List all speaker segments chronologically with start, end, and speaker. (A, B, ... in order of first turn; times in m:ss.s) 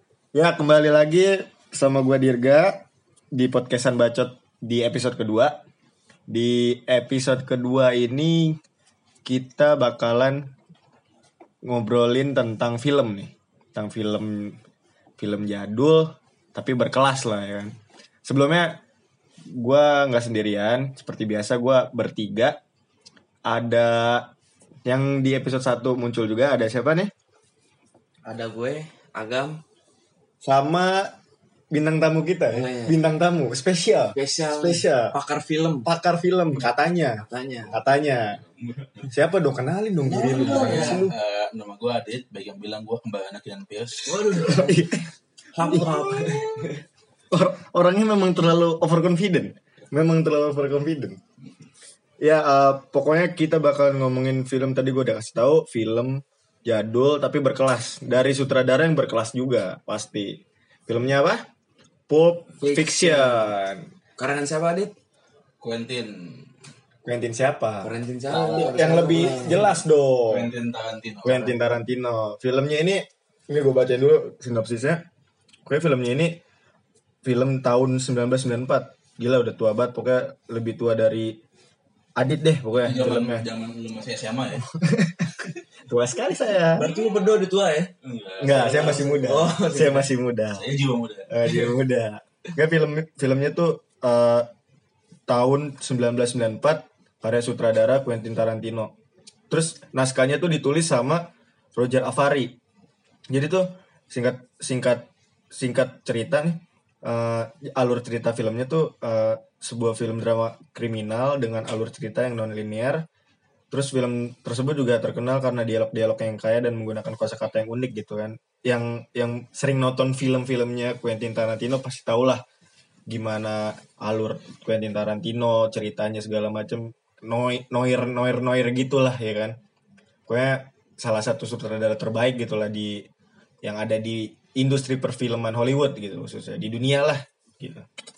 0:00.3-0:05.6 A
0:06.3-0:08.6 A
0:09.2-0:10.5 A
0:11.6-0:14.6 A
0:15.2-0:18.8 A
0:19.4-0:22.6 A
0:23.5-0:24.3 A
0:24.8-0:27.1 A
0:28.3-0:29.6 B
0:30.4-0:31.2 A
0:31.7-0:35.2 A
0:32.5-0:33.0 B
0:34.1-0:35.9 B
0:35.8-0:38.4 A
0:37.2-0:37.8 B
0:38.6-0:39.1 C
0:39.1-0:41.2 A
0:40.0-0:41.0 B
0:40.2-0:44.4 C
0:44.1-0:44.8 B
0:44.3-0:45.1 A
0:45.5-0:46.8 B
0:45.6-0:46.6 A
0:47.3-0:51.2 A
0:52.2-1:01.4 A
1:02.1-1:03.9 A
1:02.6-1:03.5 B
1:04.2-1:04.9 B
1:05.6-1:06.5 C
1:07.0-1:10.5 A
1:07.8-1:09.6 B
1:08.4-1:11.6 C
1:11.2-1:15.0 A
1:15.7-1:16.4 A
1:17.2-1:21.4 A
1:22.2-1:23.5 A
1:22.8-1:24.7 C
1:24.7-1:26.9 A
1:26.7-1:27.9 B
1:26.8-1:27.1 C
1:28.0-1:29.0 C
1:28.4-1:30.7 A
1:28.5-1:30.1 B
1:30.6-1:31.7 C
1:31.3-1:34.5 A
1:35.3-1:38.9 A
1:39.5-1:42.6 A
1:43.3-1:53.0 A
1:53.7-2:02.4 A
2:03.1-2:09.6 A
2:10.3-2:13.1 A
2:13.6-2:17.9 A